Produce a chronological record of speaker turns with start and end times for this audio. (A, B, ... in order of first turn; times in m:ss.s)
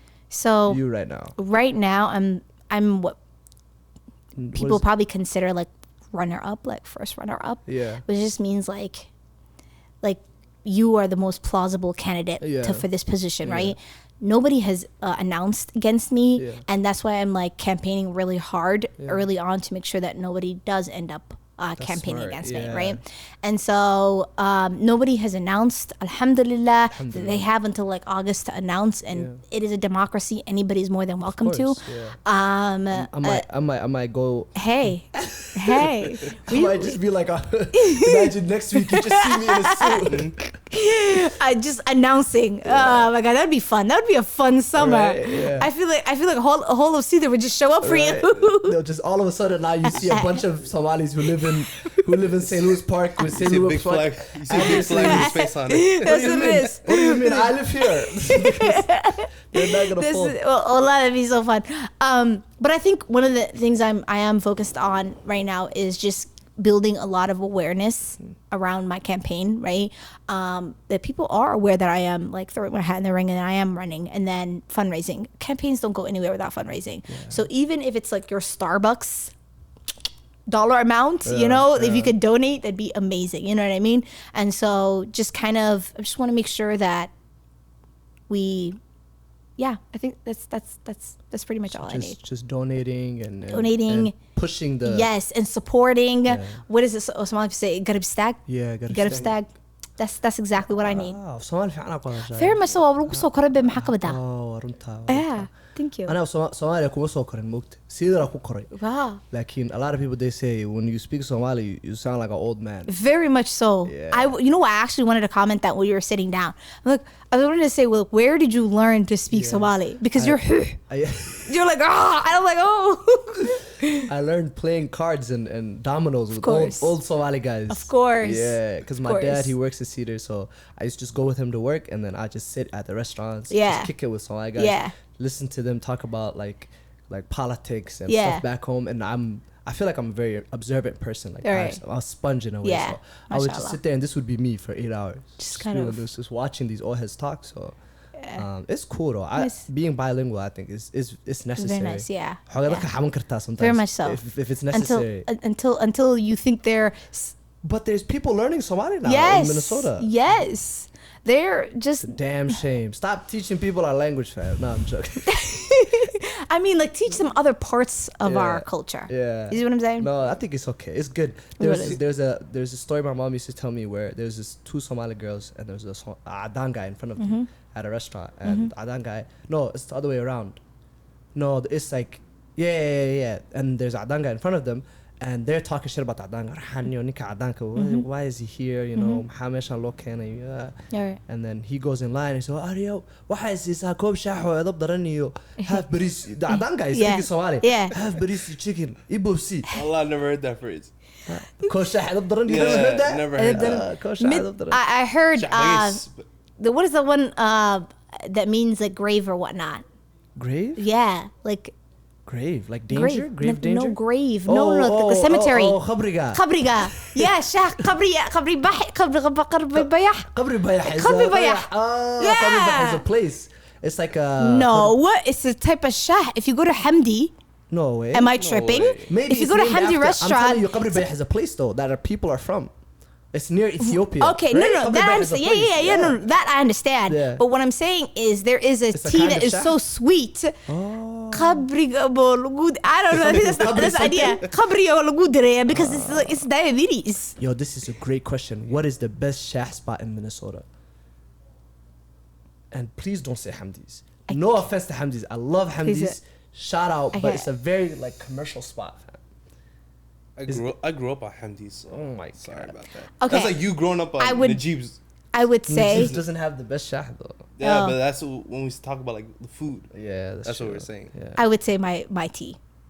0:00.3-0:00.8 A
0:00.7-0:01.3 B
0:01.4-0:03.2 A
0:04.4-0:04.8 B
0:04.5-0:09.1 A
0:07.7-0:08.0 B
0:10.0-0:33.4 A
0:12.4-0:12.9 B
0:13.4-0:13.8 B
0:16.4-0:16.6 B
0:19.0-0:19.2 B
0:21.8-0:23.0 B
0:26.9-0:27.5 B
0:29.1-0:29.4 B
0:31.2-0:32.2 B
0:32.9-0:40.5 B
0:34.5-0:37.0 A
0:37.7-0:40.1 A
0:40.1-0:40.3 C
0:40.7-0:48.8 A
0:42.6-0:43.1 B
0:44.7-0:45.7 B
0:47.8-0:55.4 B
0:49.8-0:50.4 A
0:51.5-0:52.0 A
0:53.2-0:57.5 C
0:54.5-1:19.3 A
0:56.0-1:00.4 B
1:17.1-1:17.5 B
1:20.5-1:27.1 A
1:21.2-1:22.2 B
1:28.3-1:28.8 A
1:29.6-1:32.2 A
1:31.7-1:35.1 B
1:33.5-1:34.1 A
1:34.8-1:41.2 A
1:36.2-1:36.6 B
1:38.5-1:39.3 B
1:40.6-1:45.5 B
1:42.3-1:44.2 A
1:45.1-1:46.1 A
1:46.0-1:48.7 B
1:48.7-1:49.2 A
1:49.3-1:53.0 B
1:52.9-2:00.8 A
1:53.8-1:54.4 B
1:59.3-2:01.5 B
2:01.4-2:04.0 A
2:04.0-2:27.7 B
2:06.3-2:07.0 A
2:07.7-2:09.5 A
2:13.5-2:13.9 A
2:14.6-2:14.9 A
2:18.1-2:18.4 A
2:21.4-2:21.8 A
2:22.6-2:23.8 A
2:25.4-2:26.1 A
2:28.3-2:35.3 B
2:29.4-2:29.6 A
2:31.6-2:32.9 A
2:33.6-2:34.2 A
2:34.7-2:37.3 A
2:37.6-2:40.1 B
2:39.0-2:42.6 A
2:42.0-2:45.4 B
2:45.3-2:50.1 A
2:48.2-3:00.6 B
2:51.6-2:52.0 A
2:57.2-2:57.5 A
2:58.4-2:58.7 A
3:01.3-3:19.7 B
3:07.8-3:08.0 A
3:09.0-3:09.2 A
3:10.9-3:11.2 A
3:16.5-3:17.9 A
3:19.7-3:20.9 C
3:21.2-3:24.8 B
3:22.4-3:23.9 C
3:22.5-3:26.0 A
3:25.3-3:26.2 C
3:26.6-3:29.8 A
3:30.4-3:30.8 B
3:30.8-3:31.7 A
3:32.2-3:37.3 B
3:32.9-3:35.8 A
3:36.3-3:40.3 A
3:39.7-3:45.0 B
3:40.8-3:43.0 A
3:44.4-3:47.3 A
3:47.7-3:48.3 B
3:48.1-3:51.0 A
3:48.3-3:49.1 C
3:49.0-3:52.7 B
3:53.3-3:56.2 B
3:53.8-4:00.6 A
3:57.1-3:57.4 B
3:58.9-3:59.8 B
4:00.7-4:01.6 B
4:01.3-4:07.4 A
4:03.1-4:04.4 B
4:03.3-4:04.3 C
4:05.7-4:06.4 B
4:07.4-4:10.6 B
4:12.7-4:19.2 B
4:14.3-4:14.6 A
4:15.8-4:16.2 A
4:17.1-4:17.5 A
4:20.4-4:25.0 C
4:21.9-4:22.7 B
4:23.2-4:23.6 A
4:24.2-4:24.6 A
4:25.3-4:26.1 A
4:25.7-4:27.4 B
4:25.9-4:26.2 C
4:27.6-4:29.9 C
4:27.6-4:28.0 A
4:29.9-4:31.4 B
4:30.4-4:31.1 C
4:31.4-4:32.6 A